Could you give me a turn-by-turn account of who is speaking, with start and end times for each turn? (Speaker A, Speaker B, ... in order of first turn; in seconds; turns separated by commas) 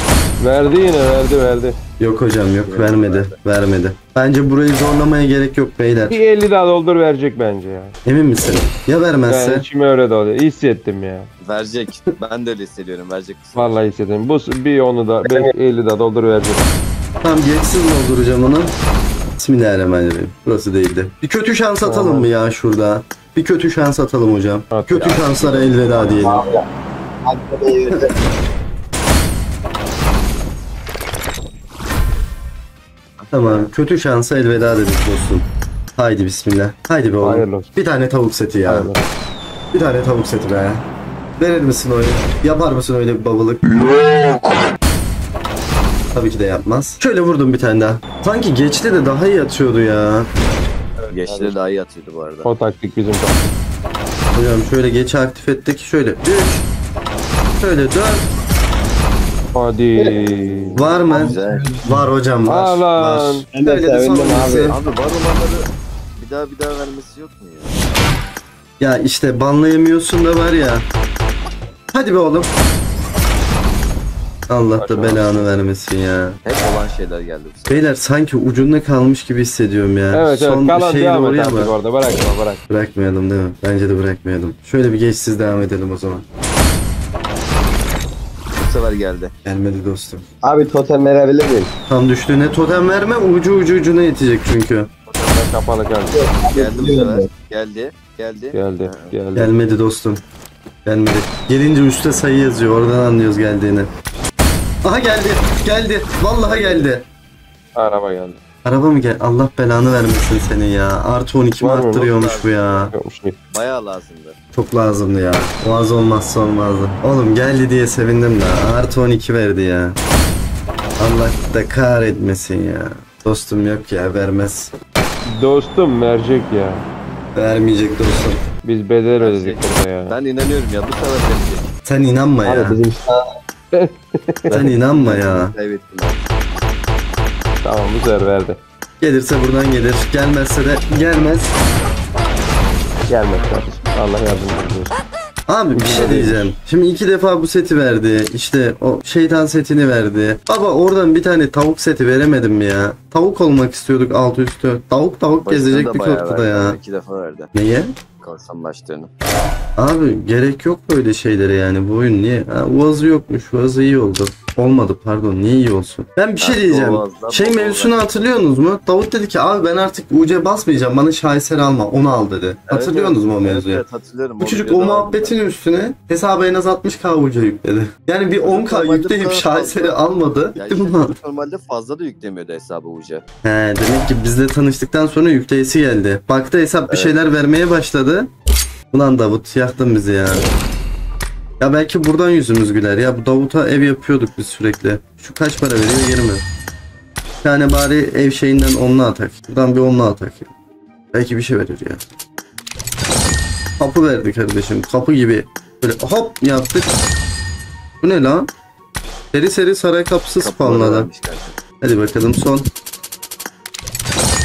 Speaker A: 0.4-1.8, Speaker B: 2.0-6.2, Speaker C: 2.6-3.4, Speaker A: 6.1-7.9, Speaker B: 8.0-9.7, Speaker A: 9.3-11.3, Speaker C: 11.4-13.8, Speaker A: 13.5-16.7, Speaker D: 15.2-15.5, Speaker B: 17.2-18.7, Speaker B: 19.4-26.4, Speaker A: 21.8-22.3, Speaker A: 24.7-25.2, Speaker C: 24.9-26.5, Speaker D: 26.2-26.6, Speaker D: 27.2-28.1, Speaker C: 33.2-33.7, Speaker B: 33.3-38.9, Speaker A: 37.2-37.7, Speaker A: 38.6-39.0, Speaker B: 39.7-40.8, Speaker B: 41.4-43.6, Speaker B: 46.1-50.3, Speaker A: 51.0-51.5, Speaker C: 51.1-52.5, Speaker A: 52.4-53.5, Speaker B: 54.3-56.6, Speaker B: 57.6-58.2, Speaker A: 59.5-60.8, Speaker C: 60.2-61.7, Speaker B: 60.8-64.8, Speaker D: 61.1-62.1, Speaker A: 62.5-63.5, Speaker D: 63.5-64.8, Speaker C: 64.7-67.8, Speaker B: 68.8-70.8, Speaker B: 71.9-72.5, Speaker B: 74.5-76.4, Speaker A: 74.8-75.6, Speaker C: 76.4-77.8, Speaker B: 77.7-81.7, Speaker A: 80.1-82.6, Speaker B: 82.7-86.2, Speaker C: 88.5-89.3, Speaker B: 89.4-90.2, Speaker D: 90.4-91.7, Speaker B: 91.9-94.9, Speaker C: 95.1-95.7, Speaker A: 95.3-96.2, Speaker D: 96.1-97.3, Speaker C: 96.4-99.1, Speaker A: 98.5-99.5, Speaker B: 99.3-100.2, Speaker B: 100.8-103.9, Speaker B: 104.8-107.0, Speaker C: 106.4-106.9, Speaker A: 107.7-108.4, Speaker B: 108.6-112.9, Speaker A: 111.6-112.1, Speaker C: 111.9-112.9, Speaker A: 112.9-113.3, Speaker C: 113.5-114.4, Speaker B: 114.5-120.0, Speaker B: 121.0-124.7, Speaker A: 125.3-126.8, Speaker B: 127.3-128.4, Speaker A: 128.6-130.2, Speaker C: 129.2-131.7, Speaker B: 131.8-132.8, Speaker D: 132.4-133.2, Speaker A: 133.7-134.7, Speaker B: 134.5-135.5, Speaker C: 135.0-136.3, Speaker A: 137.6-138.6, Speaker B: 139.0-141.5, Speaker A: 143.1-144.9, Speaker B: 145.5-156.8, Speaker A: 145.7-146.5, Speaker C: 155.4-157.5, Speaker B: 157.5-157.9, Speaker C: 158.2-159.1, Speaker B: 159.8-173.8, Speaker C: 166.4-168.2, Speaker C: 172.7-175.3, Speaker B: 174.4-181.2, Speaker C: 178.4-180.0, Speaker C: 180.5-183.2, Speaker B: 183.4-188.3, Speaker C: 186.9-187.2, Speaker B: 188.9-190.5, Speaker B: 191.6-196.4, Speaker B: 197.4-200.5, Speaker B: 201.1-202.0, Speaker B: 203.8-206.9, Speaker B: 208.0-208.5, Speaker B: 209.3-211.1, Speaker C: 210.4-211.6, Speaker B: 211.8-212.7